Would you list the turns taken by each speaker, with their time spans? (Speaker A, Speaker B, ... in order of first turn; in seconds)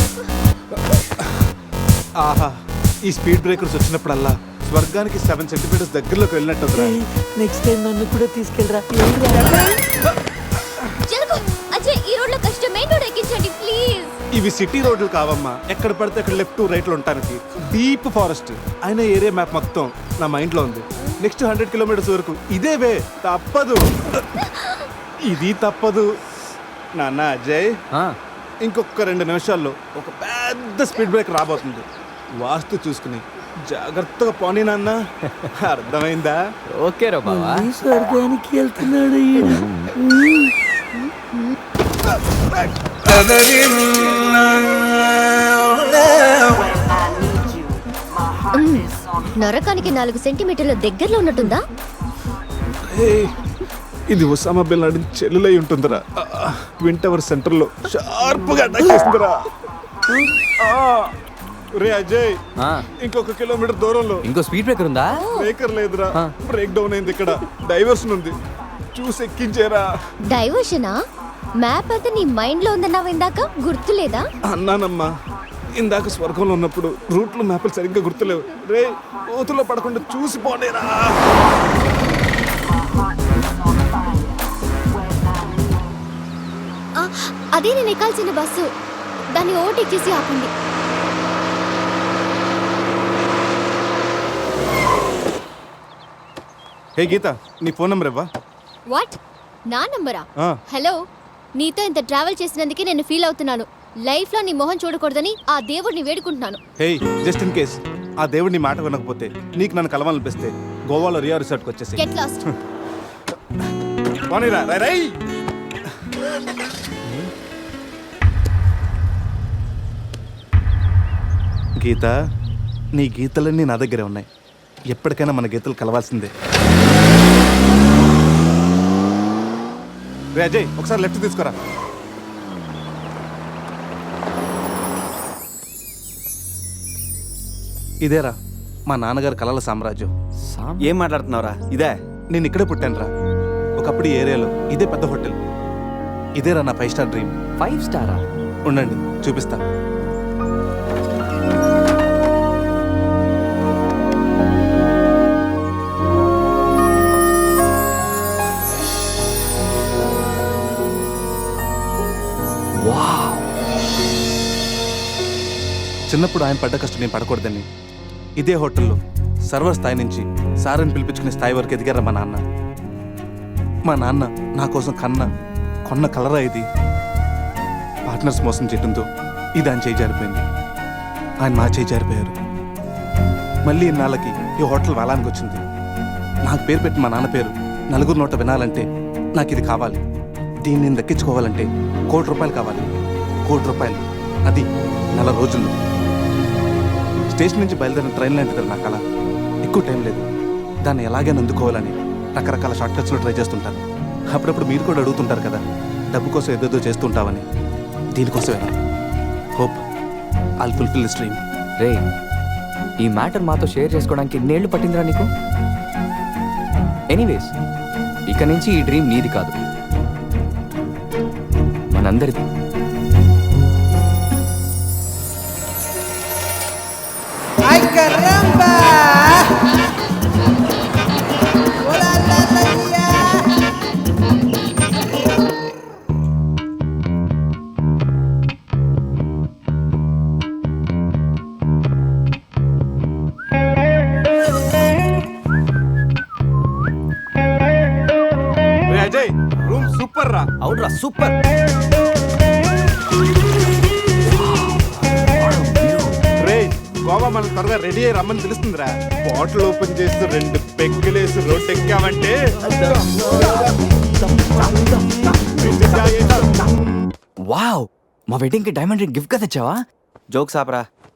Speaker A: 0.7-1.5, 2.2-7.0, 14.3-24.2, 25.2-26.1, 27.0-27.7, 28.6-31.9, 32.4-35.0, 35.6-36.4, 43.1-43.5, 52.8-53.3, 54.1-59.5, 60.6-61.1, 61.8-62.4, 63.0-64.2, 65.3-68.4, 69.0-69.9, 74.5-75.1, 75.8-81.3, 97.0-98.3, 106.8-112.5, 114.3-115.2, 121.8-122.1, 123.0-124.3, 124.9-126.3, 130.3-131.6, 138.0-138.3, 138.9-140.1, 142.3-143.1, 143.8-145.4, 146.4-147.3, 148.7-149.6, 166.1-167.7, 168.4-169.0, 169.5-172.4, 173.9-175.3, 175.9-176.7, 178.1-179.1, 179.6-180.4, 181.4-182.4, 183.7-185.6, 186.5-190.0, 190.6-192.9, 193.5-195.8, 197.3-199.0, 199.6-200.2, 200.8-205.6, 206.1-207.4, 208.2-208.8, 210.6-211.4, 248.9-250.5, 256.4-263.6, 265.4-266.6
Speaker B: 6.8-9.8, 37.2-40.5
Speaker C: 11.1-14.1, 48.5-51.6, 65.1-65.5, 70.3-71.0, 71.6-74.2, 87.0-88.7, 89.4-90.5, 98.9-99.2, 99.7-101.0, 101.6-106.6, 112.0-112.4
Speaker D: 36.7-37.7, 62.6-62.9, 64.2-65.2, 140.5-140.9, 147.6-148.2, 162.8-163.4, 213.0-215.3, 217.1-217.5, 218.3-219.5, 221.9-222.4, 255.4-256.1, 267.5-269.8
Speaker E: 140.8-141.9, 250.6-251.3, 262.7-263.1, 270.3-270.9